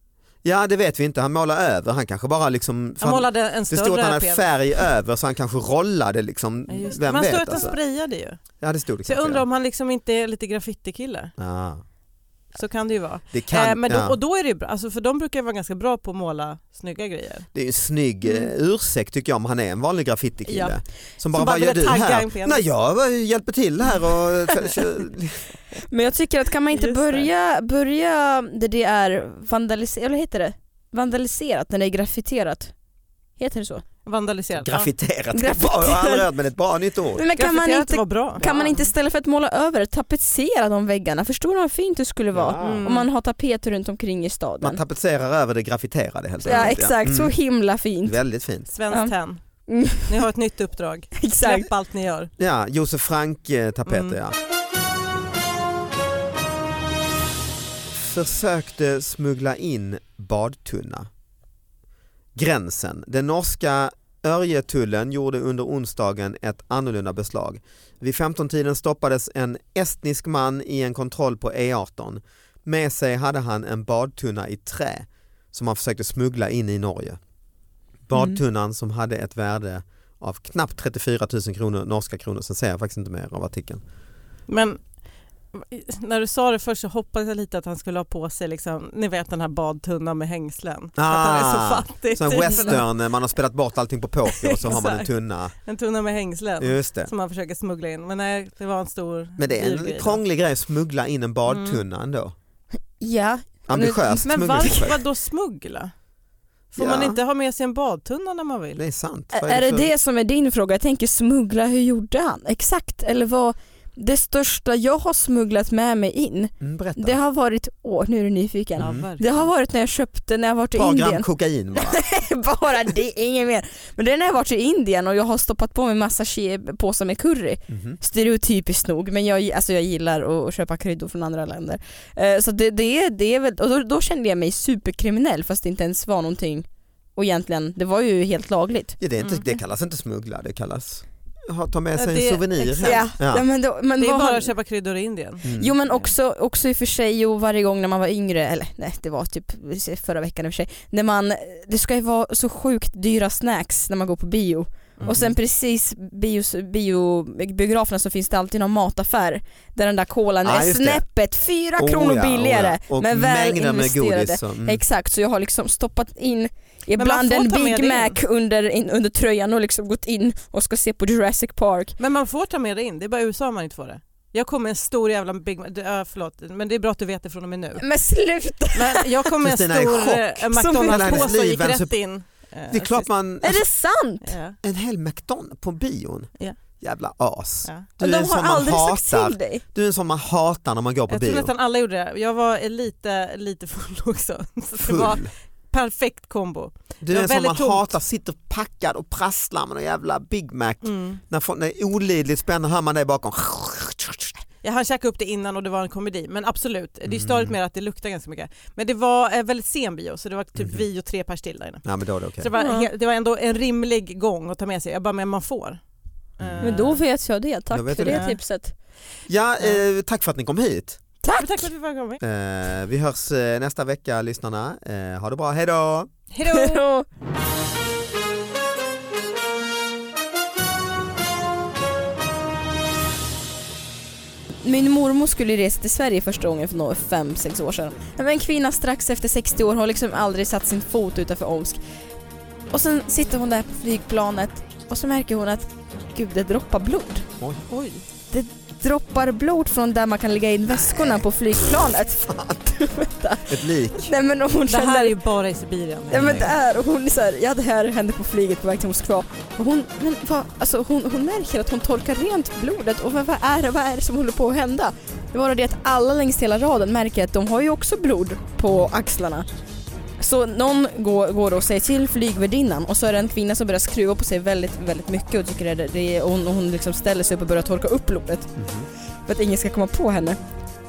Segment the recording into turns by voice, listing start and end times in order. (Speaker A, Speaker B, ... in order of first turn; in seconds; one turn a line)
Speaker A: 0.4-7.8
Speaker B: 3.0-4.5
Speaker B: 6.7-8.4
Speaker A: 8.6-9.4
Speaker B: 9.1-11.3
Speaker A: 11.4-11.8
Speaker B: 12.6-17.5
Speaker A: 13.3-14.2
Speaker A: 17.5-25.5
Speaker B: 20.5-20.8
Speaker B: 21.3-22.6
Speaker C: 25.9-32.7
Speaker B: 26.7-27.3
Speaker C: 33.4-33.8
Speaker B: 34.1-34.9
Speaker A: 34.6-37.2
Speaker C: 35.3-36.3
Speaker C: 37.1-44.8
Speaker B: 37.4-38.9
Speaker A: 42.3-42.9
Speaker B: 42.6-43.1
Speaker A: 44.6-47.4
Speaker C: 46.4-48.2
Speaker B: 46.5-46.7
Speaker A: 48.0-48.8
Speaker B: 48.8-49.4
Speaker C: 49.7-50.2
Speaker B: 50.0-52.3
Speaker C: 51.2-51.7
Speaker A: 52.4-54.4
Speaker B: 53.9-54.2
Speaker A: 57.9-61.1
Speaker A: 62.4-77.2
Speaker A: 78.1-83.8
Speaker B: 84.5-84.8
Speaker B: 85.5-92.8
Speaker A: 91.0-95.5
Speaker B: 94.2-100.2
Speaker A: 96.6-97.1
Speaker A: 99.4-102.3
Speaker B: 101.5-101.8
Speaker C: 103.0-104.9
Speaker A: 103.7-105.0
Speaker B: 104.3-105.9
Speaker B: 106.7-108.8
Speaker A: 106.8-107.2
Speaker A: 108.8-109.9
Speaker C: 109.3-139.0
Speaker A: 116.6-117.2
Speaker A: 118.8-119.1
Speaker B: 118.8-119.3
Speaker A: 120.8-122.0
Speaker A: 127.7-128.0
Speaker A: 139.0-143.4
Speaker B: 141.9-143.1
Speaker C: 142.8-144.5
Speaker B: 144.0-146.1
Speaker A: 145.4-145.7
Speaker C: 145.5-171.9
Speaker A: 155.1-155.3
Speaker A: 160.4-161.0
Speaker A: 161.8-164.8
Speaker B: 167.0-168.2
Speaker B: 172.0-177.8
Speaker C: 177.8-179.1
Speaker B: 178.7-183.1
Speaker A: 179.4-181.9
Speaker C: 180.5-181.3
Speaker A: 182.7-183.7
Speaker C: 183.4-184.3
Speaker B: 184.2-184.6
Speaker A: 184.6-191.5
Speaker C: 188.0-189.6
Speaker B: 191.1-197.9
Speaker A: 194.8-195.3
Speaker A: 197.0-204.4
Speaker B: 200.8-201.2
Speaker B: 204.6-211.9
Speaker A: 207.1-207.6
Speaker A: 210.6-210.8
Speaker A: 211.8-212.5
Speaker B: 212.4-215.8
Speaker C: 212.6-212.9
Speaker A: 216.4-216.9
Speaker B: 216.4-217.0
Speaker C: 216.6-218.7
Speaker A: 217.7-218.3
Speaker B: 218.0-218.4
Speaker A: 219.3-221.0
Speaker C: 221.2-221.7
Speaker B: 221.3-222.2
Speaker A: 222.2-226.1
Speaker B: 226.3-226.8
Speaker C: 226.5-227.1
Speaker C: 234.6-241.8
Speaker C: 242.7-247.3
Speaker B: 247.7-248.0
Speaker C: 248.3-255.2
Speaker A: 252.3-252.6
Speaker A: 253.5-254.1
Speaker B: 254.7-256.5
Speaker A: 256.1-256.5
Speaker C: 256.1-269.5
Speaker C: 270.2-278.6
Speaker A: 278.6-278.9
Speaker C: 279.3-280.4